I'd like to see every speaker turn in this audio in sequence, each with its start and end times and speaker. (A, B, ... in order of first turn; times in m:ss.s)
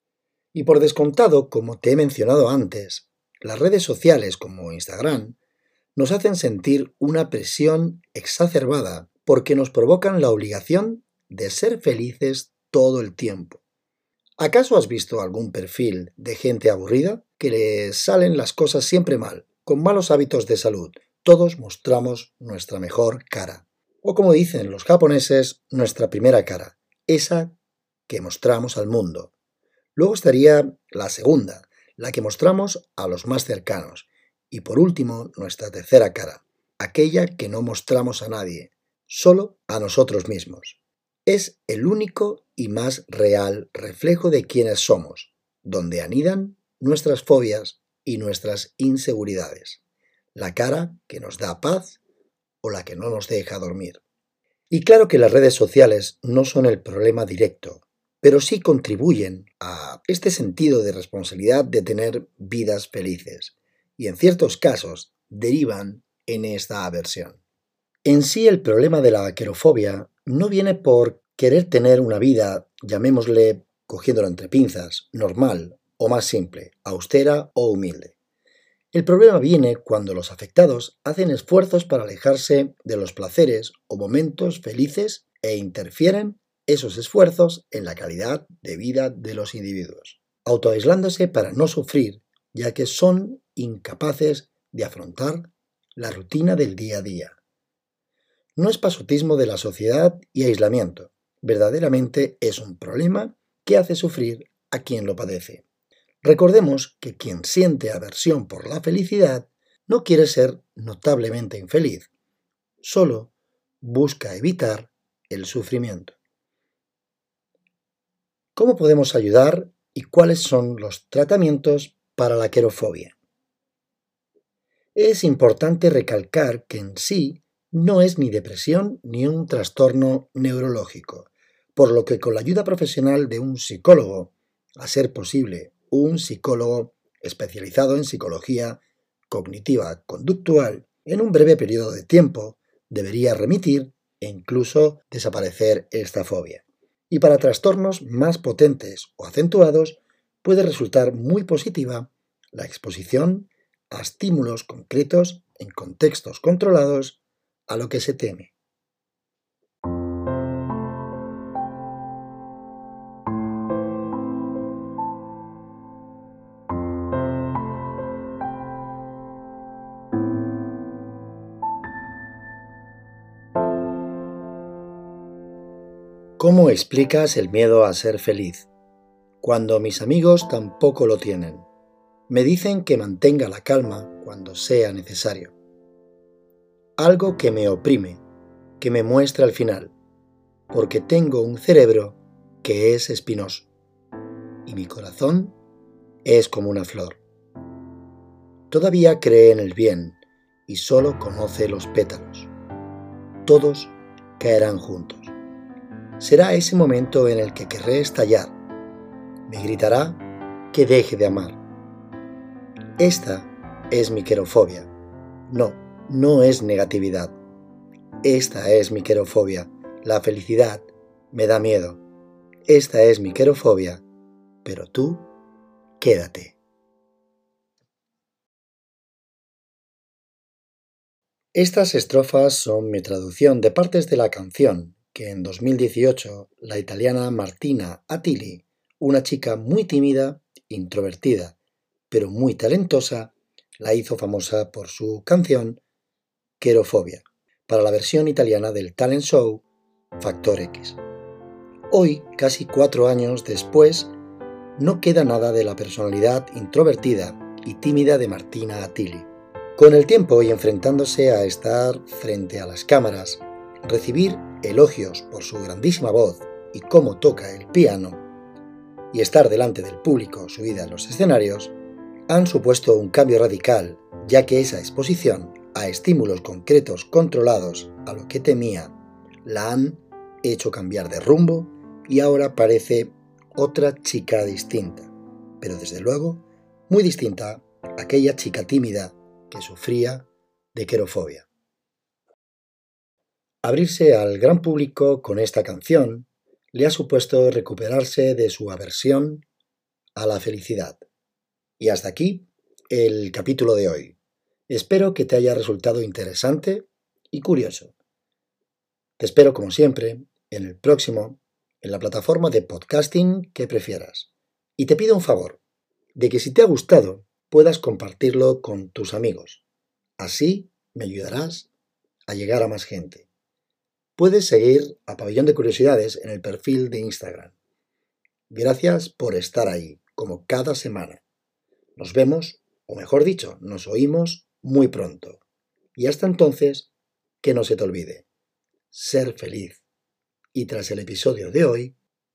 0:00.5-0:05.4 A
0:06.0-0:13.6 A
0:14.4-0:27.6 A
0:28.1-0:29.3 A
0:30.0-0:49.8 A
0:50.3-0:52.0 A
0:52.6-0:54.0 A
0:54.7-1:07.4 A
1:08.0-1:18.1 A
1:18.9-1:37.4 A
1:38.6-1:45.6 A
1:46.2-1:52.1 A
1:52.8-1:56.2 A
1:58.5-2:03.1 A
2:04.9-2:38.5 A
2:56.4-2:58.7 A
2:59.4-3:01.7 A
3:02.3-3:05.5 A
3:07.0-3:08.2 A
3:08.8-3:09.9 A
3:10.7-3:13.7 A
3:14.6-3:15.6 A
3:16.2-3:17.2 A
3:18.7-3:22.5 A
3:23.4-3:25.3 A
3:26.2-3:28.5 A
3:29.5-3:31.6 A
3:33.0-3:34.9 A
3:35.5-3:37.3 A
3:38.2-3:42.0 A
3:42.7-3:44.0 A
3:44.6-3:45.3 A
3:46.0-3:46.6 A
3:51.5-4:01.6 A
4:02.1-4:05.8 A
4:06.6-4:09.6 A
4:10.2-4:11.0 A
4:11.9-4:14.1 A
4:14.8-4:28.2 A
4:29.1-4:31.7 A
4:32.3-4:51.5 A
4:53.6-4:59.4 A
5:00.1-5:01.0 A
5:01.8-5:04.2 A
5:04.7-5:07.9 A
5:09.2-5:15.6 A
5:16.1-5:19.6 A
5:20.2-5:21.7 A
5:22.3-5:23.3 A
5:24.2-5:27.5 A
5:28.5-5:31.2 A
5:32.0-5:35.4 A
5:36.0-5:36.9 A
5:37.4-5:38.2 A
5:38.9-5:39.8 A
5:40.5-5:42.0 A